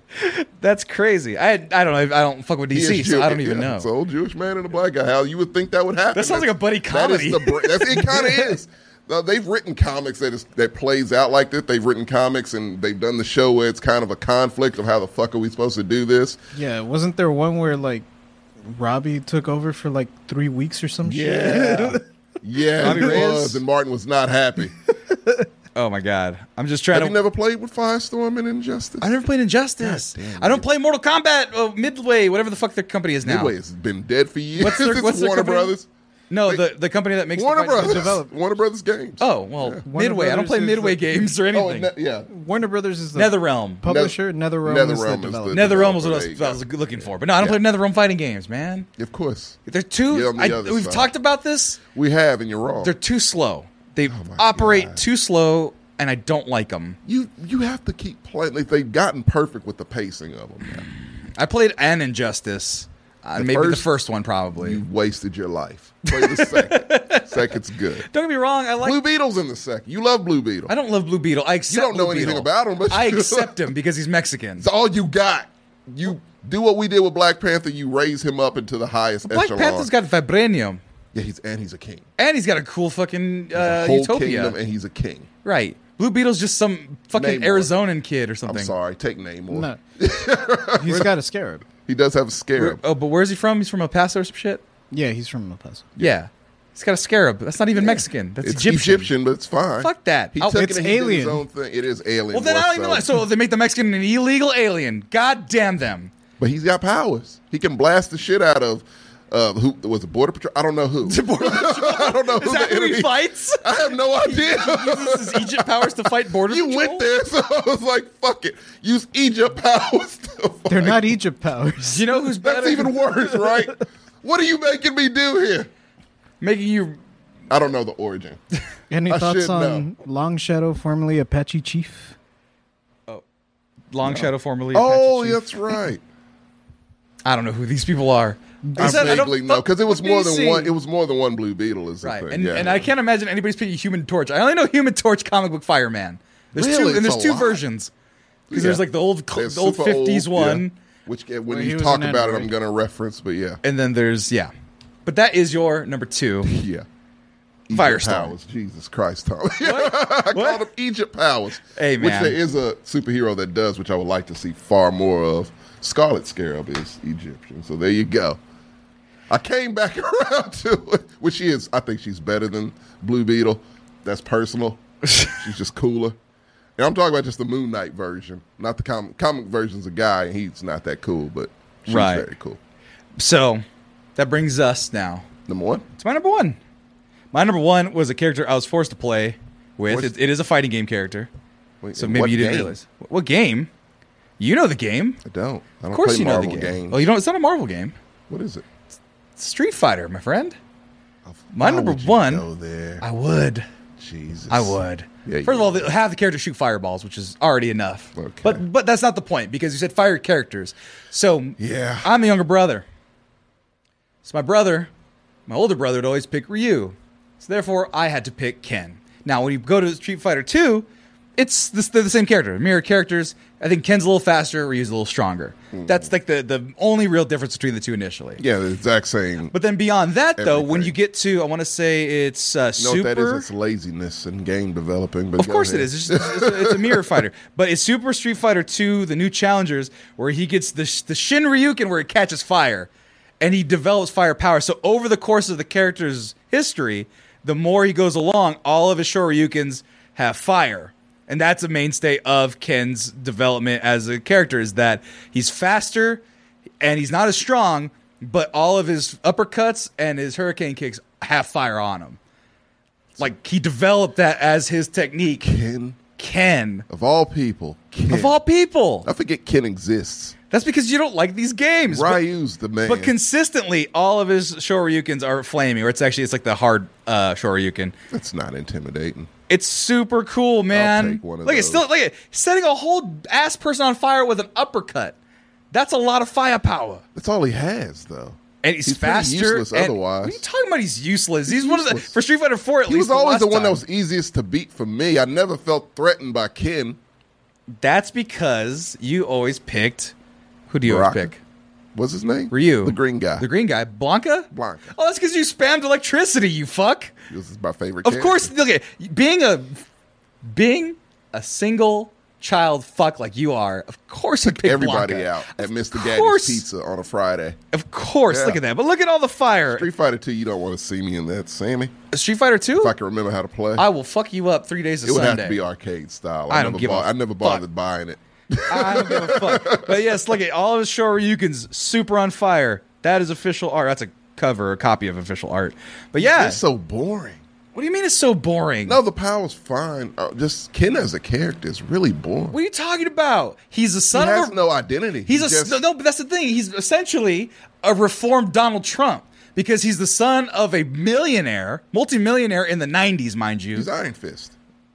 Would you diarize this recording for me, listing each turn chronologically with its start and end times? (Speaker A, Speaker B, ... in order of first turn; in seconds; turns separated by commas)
Speaker A: 0.1-3.9, Speaker B: 2.7-16.4, Speaker A: 6.1-8.5, Speaker C: 16.5-18.0, Speaker C: 18.6-22.0, Speaker B: 21.1-24.7, Speaker A: 22.8-23.6, Speaker C: 22.8-23.1, Speaker A: 25.7-27.1, Speaker B: 26.9-29.1, Speaker A: 29.0-33.5, Speaker B: 29.8-30.6, Speaker B: 33.2-35.9, Speaker A: 34.6-35.7, Speaker A: 36.3-38.2, Speaker B: 37.3-39.8, Speaker C: 37.8-38.3, Speaker A: 39.2-41.9, Speaker C: 39.9-41.2, Speaker B: 41.5-42.3, Speaker C: 42.3-45.6, Speaker A: 43.1-43.8, Speaker B: 43.8-46.6, Speaker A: 45.5-48.9, Speaker B: 49.0-51.1, Speaker A: 49.7-51.8, Speaker B: 51.9-52.9, Speaker A: 52.8-57.0, Speaker B: 54.1-55.0, Speaker B: 57.0-60.9, Speaker A: 61.3-64.8, Speaker B: 63.4-63.9, Speaker B: 64.6-68.1, Speaker A: 66.0-67.5, Speaker A: 68.1-69.0, Speaker B: 68.8-70.7, Speaker A: 70.7-74.7, Speaker B: 71.7-73.7, Speaker B: 74.6-79.9, Speaker A: 79.3-80.8, Speaker B: 81.1-82.0, Speaker A: 82.2-84.5, Speaker B: 83.5-85.3, Speaker A: 85.4-88.7, Speaker B: 87.1-87.7, Speaker B: 88.5-91.1, Speaker C: 89.5-89.8, Speaker C: 90.8-91.6, Speaker B: 91.8-92.8, Speaker A: 92.5-94.6, Speaker C: 94.9-95.8, Speaker A: 96.0-99.1, Speaker B: 97.7-103.1, Speaker A: 99.8-100.7, Speaker C: 100.5-101.4, Speaker A: 102.3-106.1, Speaker B: 106.4-121.2, Speaker A: 111.0-117.0, Speaker C: 120.7-122.0, Speaker A: 121.8-123.0, Speaker B: 122.4-125.7, Speaker A: 126.4-127.0, Speaker B: 127.5-128.4, Speaker C: 128.9-132.1, Speaker B: 129.1-129.9, Speaker A: 133.9-135.8, Speaker B: 134.0-136.0, Speaker A: 137.2-140.7, Speaker C: 138.6-139.3, Speaker B: 138.8-142.9, Speaker A: 142.0-147.9, Speaker B: 146.6-147.6, Speaker B: 148.5-153.6, Speaker A: 148.5-150.7, Speaker C: 151.5-152.5, Speaker A: 153.6-154.5, Speaker A: 155.1-156.5, Speaker B: 156.4-156.9, Speaker B: 157.7-168.4, Speaker A: 157.7-158.3, Speaker A: 159.6-160.6, Speaker A: 161.8-162.4, Speaker B: 169.3-176.2, Speaker B: 176.8-182.6, Speaker A: 181.9-182.3, Speaker A: 183.2-183.6, Speaker A: 184.2-185.3, Speaker B: 185.5-185.8, Speaker A: 186.0-186.6, Speaker A: 187.3-191.3, Speaker B: 189.9-190.1, Speaker B: 191.8-192.8, Speaker A: 192.0-193.7, Speaker A: 194.4-195.2, Speaker B: 195.2-197.1, Speaker A: 195.9-197.9, Speaker B: 198.3-198.6, Speaker A: 199.4-200.6, Speaker B: 201.2-203.0, Speaker A: 201.5-202.4, Speaker A: 203.0-203.6, Speaker B: 204.0-205.9, Speaker A: 204.5-212.8, Speaker B: 208.2-208.6, Speaker B: 211.6-212.1, Speaker A: 214.2-214.9, Speaker A: 215.5-220.8, Speaker A: 221.4-228.4, Speaker B: 225.7-226.1, Speaker B: 228.4-229.5, Speaker A: 229.5-233.4, Speaker B: 230.4-230.9, Speaker B: 232.8-237.2, Speaker A: 235.4-242.9, Speaker A: 243.4-256.2, Speaker A: 256.8-262.2, Speaker A: 263.2-265.5, Speaker B: 265.4-266.0, Speaker A: 266.2-266.8, Speaker B: 266.9-268.4, Speaker A: 268.1-269.1, Speaker B: 269.0-270.4, Speaker A: 270.5-272.2, Speaker B: 271.9-273.1, Speaker A: 272.8-277.9, Speaker B: 278.1-279.3, Speaker A: 279.5-285.1, Speaker B: 280.7-281.9, Speaker A: 285.7-287.0, Speaker B: 287.1-290.4, Speaker A: 288.6-293.8, Speaker B: 291.5-292.1, Speaker B: 292.9-297.0, Speaker A: 297.8-300.1, Speaker A: 300.7-301.4, Speaker B: 300.8-301.3, Speaker B: 301.9-303.4, Speaker A: 302.5-307.1, Speaker B: 304.5-304.9, Speaker B: 307.3-308.5, Speaker A: 308.0-309.8, Speaker A: 310.4-316.6, Speaker B: 314.4-317.6, Speaker A: 317.7-319.9, Speaker B: 318.3-318.6, Speaker B: 319.7-321.9, Speaker A: 322.1-322.9, Speaker B: 322.8-323.9, Speaker A: 323.8-325.6, Speaker B: 325.0-330.1, Speaker A: 326.5-327.6, Speaker A: 328.7-336.6, Speaker B: 336.2-337.4, Speaker A: 337.7-339.0, Speaker B: 338.9-342.6, Speaker A: 342.5-344.6, Speaker B: 344.1-345.8, Speaker A: 345.3-353.9, Speaker B: 353.7-354.5